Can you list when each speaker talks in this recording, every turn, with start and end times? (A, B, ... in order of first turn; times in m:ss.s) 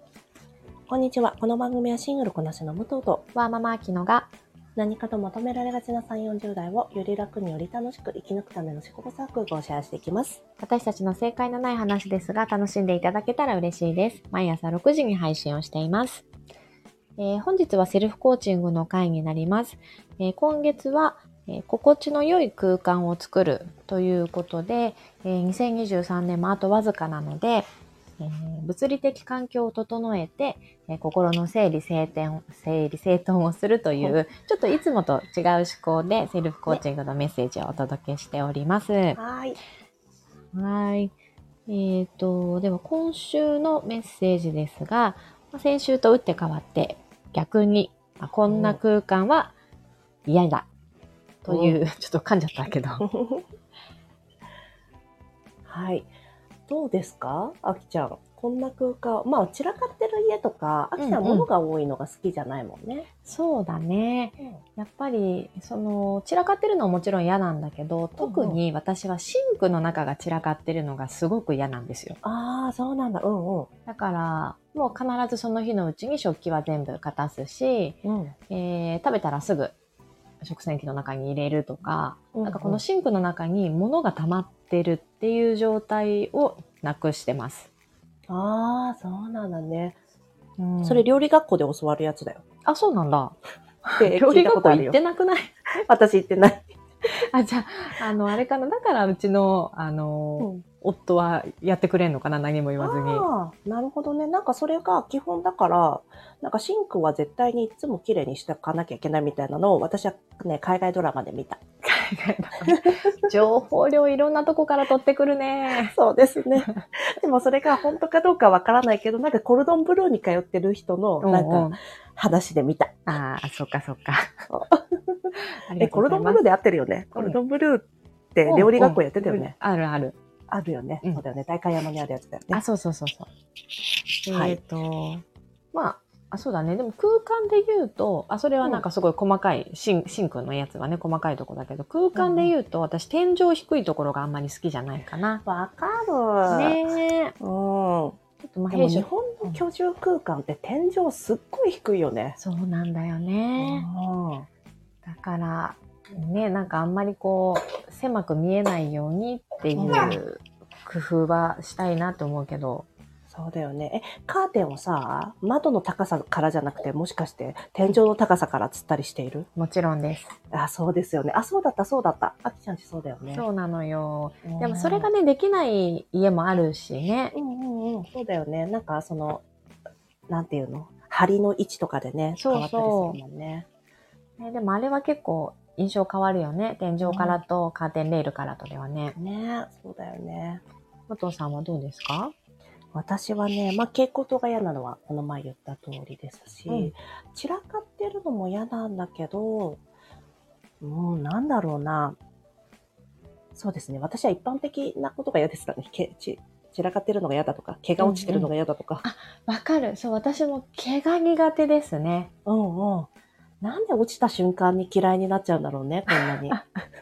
0:00.9-0:03.2 A
0:03.3-0:04.3 B
0:04.8-0:10.4 A
0:10.6-0:16.2 B
0:17.2-0:27.7 B
0:28.2-0:39.2 B
0:39.1-0:39.6 A
0:40.5-0:41.1 B
0:41.7-0:49.5 B
0:48.5-0:48.8 A
0:50.2-0:50.7 B
0:51.4-0:53.0 B
0:51.5-0:51.8 A
0:53.0-0:53.4 A
0:55.7-0:56.1 A
0:56.7-1:03.1 A
1:01.0-1:01.5 B
1:03.2-1:12.2 B
1:08.2-1:08.6 A
1:12.2-1:13.7 A
1:13.9-1:18.0 B
1:18.0-1:18.3 A
1:18.5-1:19.7 B
1:20.4-1:27.7 B
1:22.3-1:22.8 A
1:28.3-1:30.0 A
1:30.6-1:31.0 B
1:30.8-1:32.4 A
1:32.6-1:35.6 B
1:34.0-1:35.0 A
1:35.8-1:36.7 A
1:37.3-1:43.2 B
1:40.4-1:40.6 A
1:42.8-1:51.6 A
1:51.8-1:55.9 B
1:52.7-1:53.1 A
1:55.9-2:03.0 A
1:56.6-1:56.8 B
2:01.2-2:01.8 B
2:03.1-2:04.3 B
2:04.5-2:09.5 A
2:05.4-2:06.4 B
2:08.5-2:10.2 B
2:10.5-2:12.6 A
2:12.5-2:13.3 B
2:14.2-2:25.4 B
2:14.3-2:14.6 A
2:22.2-2:22.5 A
2:25.4-2:26.8 A
2:26.5-2:27.3 B
2:27.4-2:28.2 A
2:28.4-2:29.6 B
2:28.7-2:32.4 A
2:32.4-2:33.9 B
2:33.6-2:34.5 A
2:35.0-2:42.9 B
2:39.8-2:40.2 A
2:43.3-2:49.5 A
2:49.6-2:50.3 B
2:50.5-2:53.4 A
2:53.3-2:57.3 B
2:54.4-2:55.1 A
2:57.3-2:59.4 A
3:00.3-3:03.7 A
3:02.4-3:03.2 B
3:04.4-3:09.2 B
3:07.0-3:07.4 A
3:09.2-3:10.6 A
3:11.1-3:12.3 B
3:12.9-3:19.8 A
3:20.8-3:22.2 A
3:23.6-3:29.0 A
3:28.0-3:28.5 B
3:29.0-3:32.3 B
3:32.5-3:33.1 A
3:33.6-3:36.6 A
3:36.1-3:36.6 B